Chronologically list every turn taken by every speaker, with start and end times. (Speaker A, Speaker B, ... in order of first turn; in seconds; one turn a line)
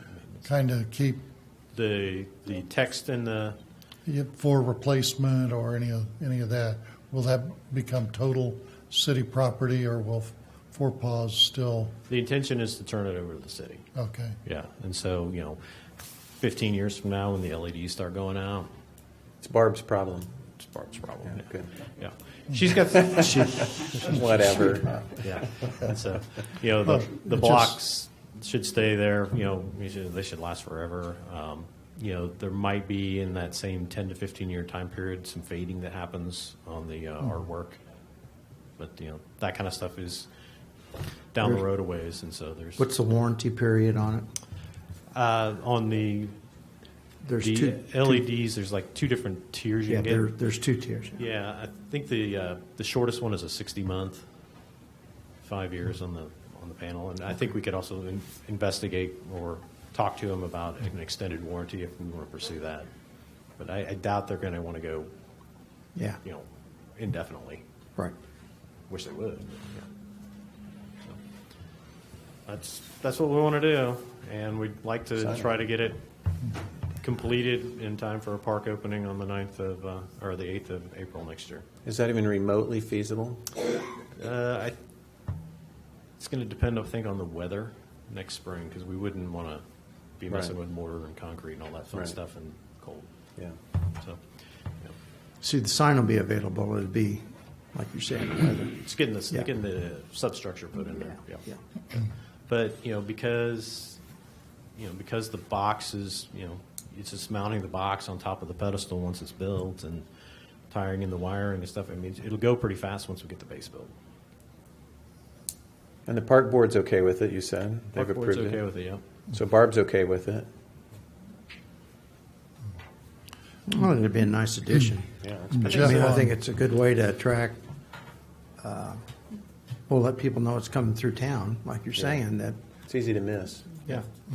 Speaker A: 0.4-1.2
Speaker B: 1.7-3.6
Speaker A: 4.1-12.0
Speaker B: 12.1-13.9
Speaker A: 14.0-14.4
Speaker B: 14.4-15.6
Speaker B: 16.3-18.7
Speaker C: 19.4-20.3
Speaker B: 20.6-21.5
Speaker C: 21.3-21.7
Speaker B: 22.0-24.2
Speaker C: 23.1-25.1
Speaker B: 25.2-37.8
Speaker A: 26.9-27.8
Speaker B: 38.8-40.3
Speaker B: 41.3-42.9
Speaker D: 42.8-44.3
Speaker B: 45.1-46.4
Speaker D: 47.2-48.2
Speaker B: 47.4-50.3
Speaker D: 49.9-51.2
Speaker B: 51.2-54.2
Speaker B: 55.4-62.9
Speaker B: 63.6-65.1
Speaker B: 66.2-67.6
Speaker B: 68.9-69.9
Speaker B: 72.5-76.0
Speaker C: 75.2-75.5
Speaker B: 77.0-81.7
Speaker C: 81.8-83.5
Speaker B: 84.2-84.8
Speaker B: 86.2-89.6
Speaker B: 90.2-93.1
Speaker D: 95.4-98.8
Speaker B: 98.8-104.0
Speaker B: 104.8-110.1
Speaker B: 110.7-113.9
Speaker C: 116.1-118.6
Speaker B: 118.0-119.0
Speaker C: 119.3-120.5
Speaker D: 123.7-127.6
Speaker C: 125.2-125.8
Speaker A: 125.5-126.3
Speaker B: 125.7-126.0
Speaker D: 128.6-129.0
Speaker D: 129.9-132.6
Speaker C: 132.9-133.8